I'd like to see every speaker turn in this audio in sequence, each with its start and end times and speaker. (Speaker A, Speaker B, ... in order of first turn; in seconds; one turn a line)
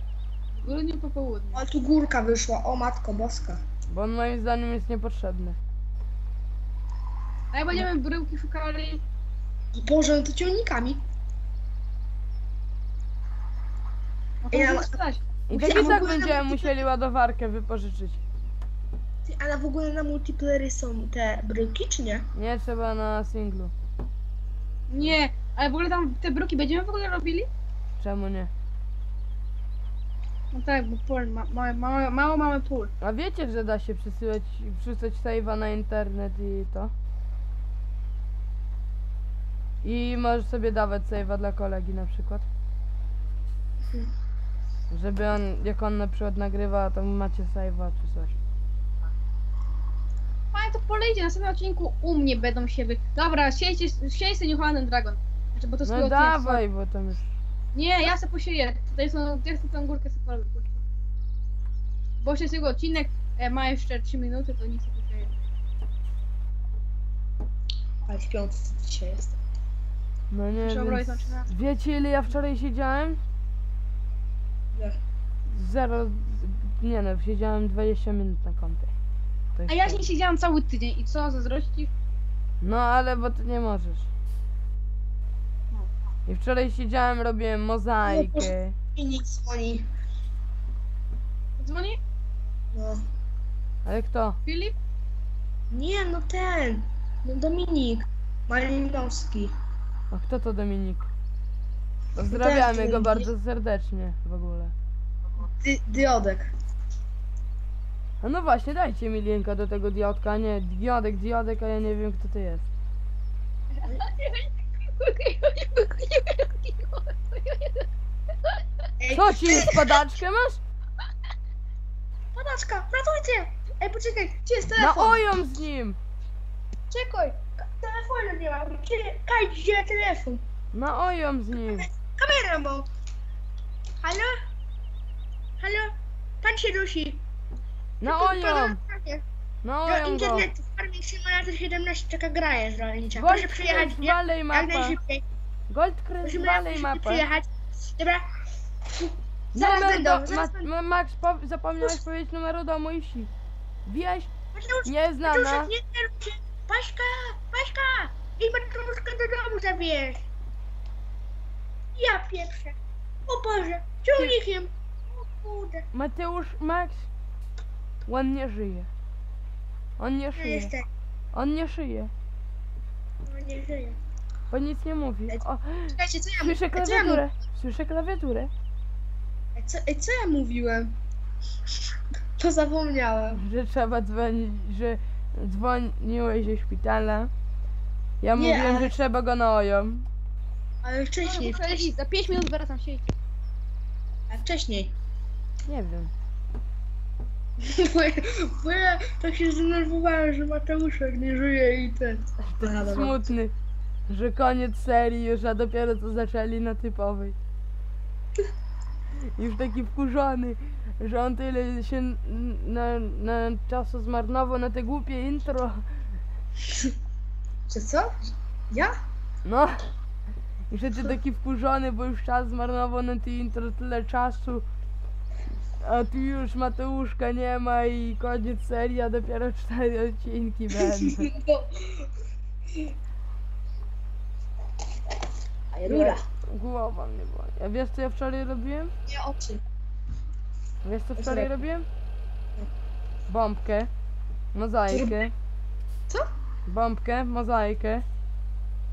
Speaker A: 0.5-1.6
Speaker B: 1.5-3.6
Speaker C: 3.9-5.6
Speaker A: 7.5-9.0
Speaker B: 9.8-11.0
Speaker A: 14.4-16.1
Speaker B: 14.5-15.0
Speaker C: 15.5-18.2
Speaker B: 15.6-16.8
Speaker B: 19.2-22.2
Speaker C: 22.3-23.7
Speaker A: 24.9-27.5
Speaker C: 28.0-28.5
Speaker A: 30.5-32.9
Speaker C: 33.0-36.9
Speaker C: 39.8-42.5
Speaker C: 44.9-48.4
Speaker A: 50.5-56.6
Speaker C: 55.8-57.3
Speaker A: 57.7-60.8
Speaker A: 62.2-65.3
Speaker B: 68.1-69.4
Speaker C: 70.3-73.2
Speaker A: 70.6-71.5
Speaker C: 75.5-78.9
Speaker C: 79.5-80.1
Speaker A: 79.7-81.9
Speaker C: 82.6-84.1
Speaker C: 86.3-88.7
Speaker B: 88.0-89.8
Speaker A: 91.6-92.0
Speaker B: 92.7-93.0
Speaker C: 93.8-94.4
Speaker A: 94.4-94.8
Speaker B: 95.7-99.5
Speaker C: 100.1-101.1
Speaker C: 102.1-104.7
Speaker B: 102.3-103.3
Speaker B: 105.6-106.5
Speaker C: 108.2-112.7
Speaker A: 113.9-117.9
Speaker B: 119.0-119.8
Speaker C: 119.1-120.6
Speaker B: 122.3-125.2
Speaker C: 124.8-126.0
Speaker B: 126.9-130.4
Speaker C: 130.7-131.9
Speaker B: 131.6-132.9
Speaker B: 134.0-134.3
Speaker B: 135.6-135.9
Speaker B: 136.4-137.2
Speaker C: 138.0-138.8
Speaker B: 138.0-139.2
Speaker C: 139.6-140.5
Speaker B: 139.8-145.2
Speaker C: 143.1-145.0
Speaker C: 145.7-147.2
Speaker B: 146.2-148.2
Speaker B: 148.9-150.7
Speaker C: 149.5-153.3
Speaker C: 153.9-154.3
Speaker B: 154.5-160.2
Speaker C: 154.8-155.7
Speaker B: 161.9-162.8
Speaker B: 163.3-165.8
Speaker C: 165.9-167.1
Speaker C: 168.1-168.9
Speaker C: 170.0-170.7
Speaker B: 170.3-170.9
Speaker C: 171.3-172.1
Speaker B: 173.2-174.0
Speaker C: 174.5-178.5
Speaker B: 175.3-177.2
Speaker B: 179.6-180.9
Speaker B: 182.4-183.4
Speaker C: 183.3-187.3
Speaker C: 188.2-190.1
Speaker B: 188.3-188.9
Speaker B: 190.8-191.9
Speaker A: 191.2-193.1
Speaker B: 194.3-194.9
Speaker C: 195.7-196.1
Speaker B: 197.6-203.3
Speaker C: 202.5-203.5
Speaker C: 204.1-207.3
Speaker C: 209.3-215.8
Speaker B: 217.7-218.1
Speaker C: 219.4-219.8
Speaker C: 220.7-224.6
Speaker C: 225.8-231.3
Speaker B: 231.0-232.1
Speaker B: 235.7-236.2
Speaker C: 235.8-238.9
Speaker B: 239.1-239.6
Speaker C: 240.8-241.8
Speaker B: 241.2-241.6
Speaker C: 243.3-243.9
Speaker C: 244.5-245.3
Speaker B: 244.9-245.2
Speaker C: 246.7-248.0